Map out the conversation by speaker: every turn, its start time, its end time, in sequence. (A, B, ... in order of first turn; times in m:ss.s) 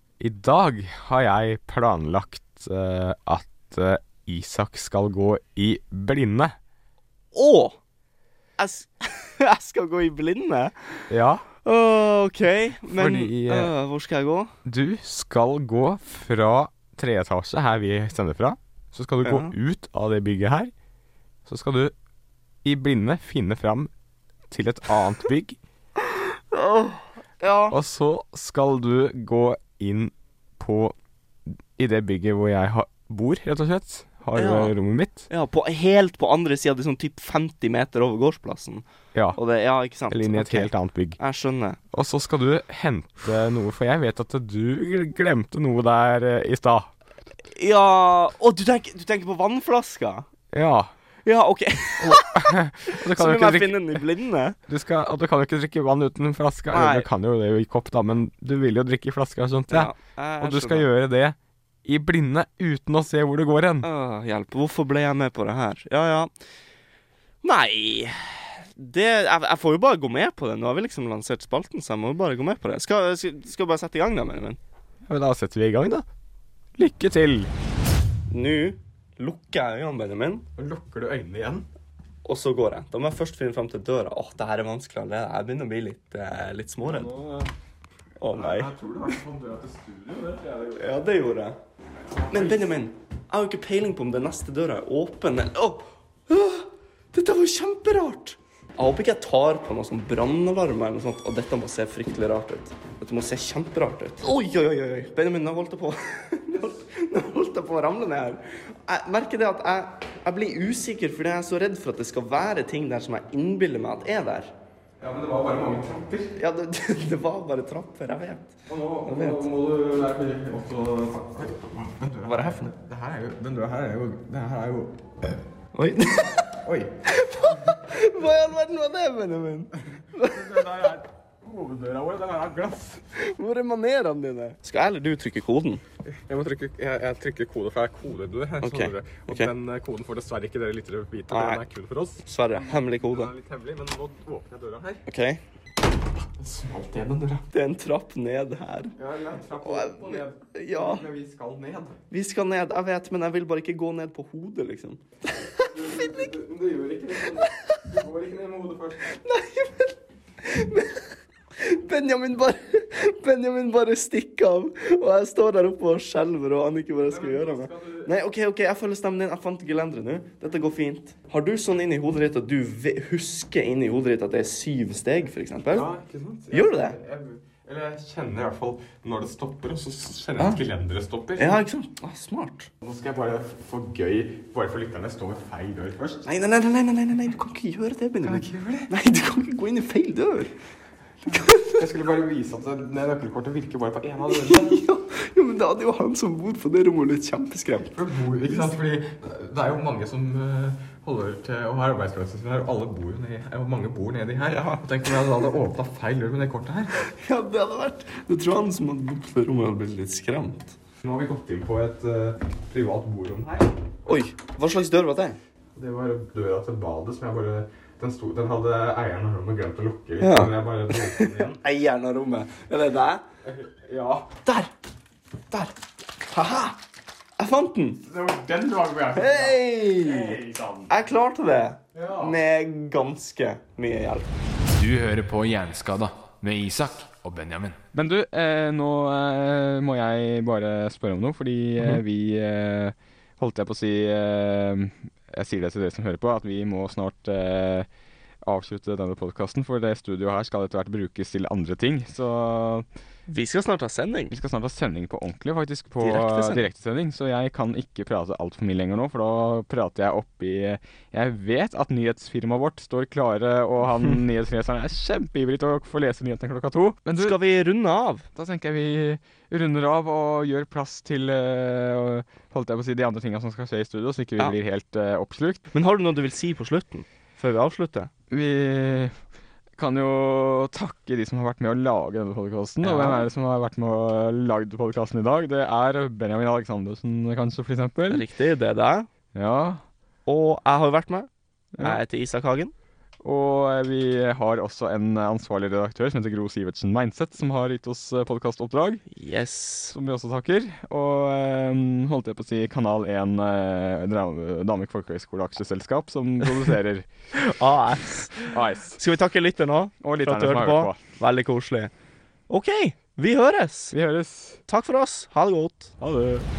0:00.2-0:06.6 A
0:07.3-0:07.8 B
0:08.6-0:11.1 B
0:11.1-0:11.4 A
0:11.6-0:14.5 B
0:12.9-0:13.7 A
0:14.6-0:20.7 A
0:19.2-0:19.5 B
0:21.5-0:21.9 A
0:22.6-0:23.9 A
0:24.5-0:25.6 A
0:26.2-0:27.8 B
0:27.7-0:31.0 A
0:31.5-0:35.3 A
0:34.4-0:34.7 B
0:35.3-0:41.8 B
0:40.1-0:41.2 A
0:41.9-0:46.9 A
0:47.5-0:50.3 B
0:50.5-0:50.9 A
0:51.2-0:54.6 B
0:52.0-0:54.0 A
0:54.7-1:03.9 A
0:56.7-0:57.1 B
0:59.7-1:00.9 B
1:03.8-1:06.3 B
1:07.4-1:14.6 B
1:15.1-1:16.1 A
1:16.8-1:17.5 A
1:18.3-1:20.5 B
1:20.6-1:21.7 A
1:22.2-1:27.1 B
1:26.8-1:27.5 A
1:28.2-1:28.7 B
1:28.3-1:31.0 A
1:30.8-1:31.6 B
1:32.1-1:32.7 A
1:32.3-1:54.5 B
1:55.0-1:56.3 A
1:56.4-1:59.4 B
1:58.7-2:05.4 A
2:02.2-2:02.7 B
2:05.7-2:10.7 B
2:06.6-2:06.9 A
2:09.9-2:13.0 A
2:13.1-2:15.8 B
2:16.0-2:25.0 A
2:18.6-2:19.5 B
2:21.3-2:21.6 B
2:22.2-2:23.3 B
2:25.1-2:25.4 B
2:26.2-2:27.4 A
2:27.5-2:29.0 B
2:29.0-2:32.0 A
2:29.6-2:31.0 B
2:32.1-2:36.3 B
2:35.6-2:39.2 A
2:39.0-2:41.1 B
2:41.6-2:55.9 B
2:47.1-2:48.1 A
2:55.7-3:01.6 A
2:56.5-2:57.0 B
3:01.4-3:02.7 B
3:02.8-3:06.3 A
3:06.2-3:10.5 B
3:08.2-3:08.9 A
3:11.2-3:11.9 B
3:11.7-3:14.8 A
3:14.3-3:17.9 B
3:17.9-3:27.0 A
3:24.5-3:24.8 B
3:27.0-3:30.8 B
3:31.0-3:34.2 A
3:34.1-3:35.4 B
3:35.8-3:41.6 A
3:40.2-3:43.2 B
3:43.4-3:44.3 A
3:46.3-3:46.8 B
3:47.4-3:48.0 B
3:48.0-3:50.9 A
3:49.1-3:54.3 B
3:51.9-3:52.4 A
3:54.7-3:57.8 C
3:57.9-4:07.9 A
4:08.4-4:12.9 A
4:13.3-4:14.4 B
4:14.3-4:27.4 A
4:16.0-4:16.7 B
4:27.2-4:28.3 B
4:28.4-4:35.7 A
4:35.7-4:38.1 B
4:38.3-4:39.2 A
4:39.8-4:48.2 A
4:42.8-4:43.3 B
4:48.1-4:49.1 B
4:49.3-4:49.8 A
4:50.3-4:52.7 B
4:51.8-4:52.0 A
4:53.2-4:59.0 A
4:59.1-5:00.0 B
4:59.9-5:07.1 A
5:07.3-5:11.9 B
5:08.5-5:09.0 A
5:10.0-5:11.0 A
5:12.5-5:13.9 B
5:13.9-5:14.6 A
5:14.7-5:15.9 B
5:16.0-5:16.5 A